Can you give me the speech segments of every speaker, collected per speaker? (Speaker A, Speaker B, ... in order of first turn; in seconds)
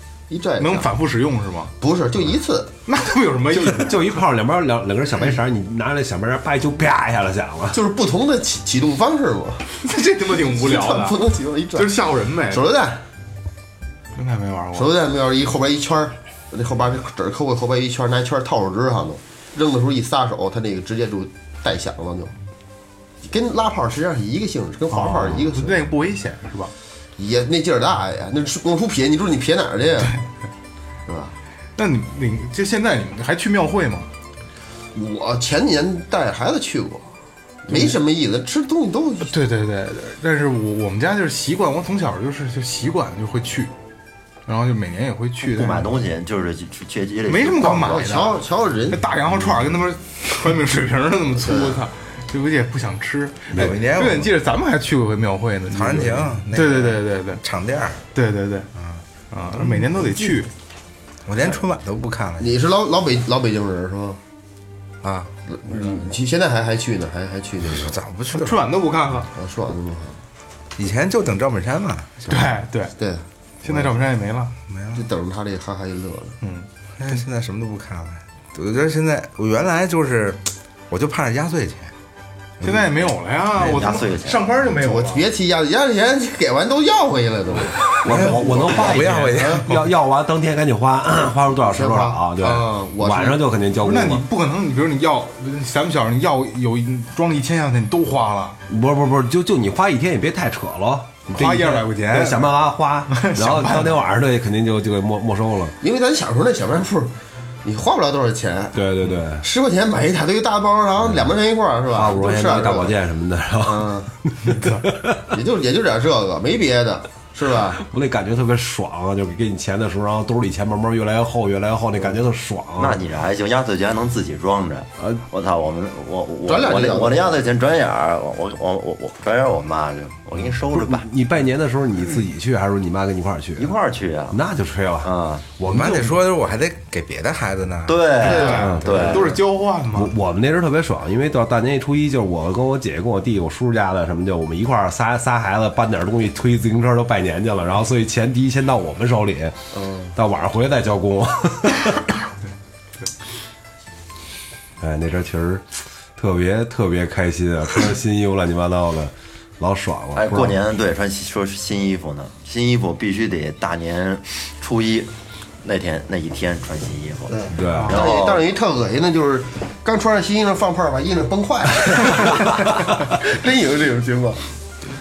Speaker A: 0.3-0.9, 1.8-2.7, 7.7-9.6, 10.4-13.0, 14.7-22.3, 23.2-25.8, 27.2-30.1, 31.1-31.4, 34.9-37.1, 37.6-39.4, 47.6-49.0, 51.4-51.8, 62.4-64.2, 65.5-67.9, 69.3-70.2, 73.0-73.8, 74.9-76.4, 84.7-88.8, 91.7-93.4, 105.8-108.8, 109.4-112.9, 113.6-114.1, 115.3-117.8, 126.5-127.4, 138.2-138.8, 149.8-150.0, 167.3-174.4
Speaker B: 0.6-1.7, 2.9-4.0, 9.7-11.2, 11.7-12.7, 14.2-14.9, 24.9-26.7, 31.8-34.1, 39.2-43.7, 44.5-45.9, 47.3-57.4, 58.1-58.7, 59.3-60.5, 68.3-69.3, 72.3-72.9, 73.6-74.5, 76.4-76.7, 82.6-85.2, 93.8-98.6, 101.3-102.6, 103.1-104.0, 114.5-114.8, 138.2-140.1, 167.7-168.1
Speaker C: 3.5-7.8, 88.0-94.2, 98.7-105.8, 108.7-109.4, 111.0-111.3, 111.9-115.3, 117.8-123.0, 130.7-133.8, 134.3-136.1, 138.5-139.2, 139.9-149.6, 150.1-152.1, 154.8-160.6, 167.5-168.0
Speaker D: 45.4-47.9, 83.5-84.5, 122.8-131.1, 133.6-134.4, 135.0-135.4, 137.8-139.4, 160.1-165.1, 165.6-168.4
Speaker E: 53.5-54.3, 55.7-58.0, 58.8-60.3, 61.2-62.5, 65.0-65.3, 67.7-68.6, 70.8-72.3, 74.7-75.0, 77.0-81.9, 82.6-82.9, 88.0-89.8, 135.6-139.2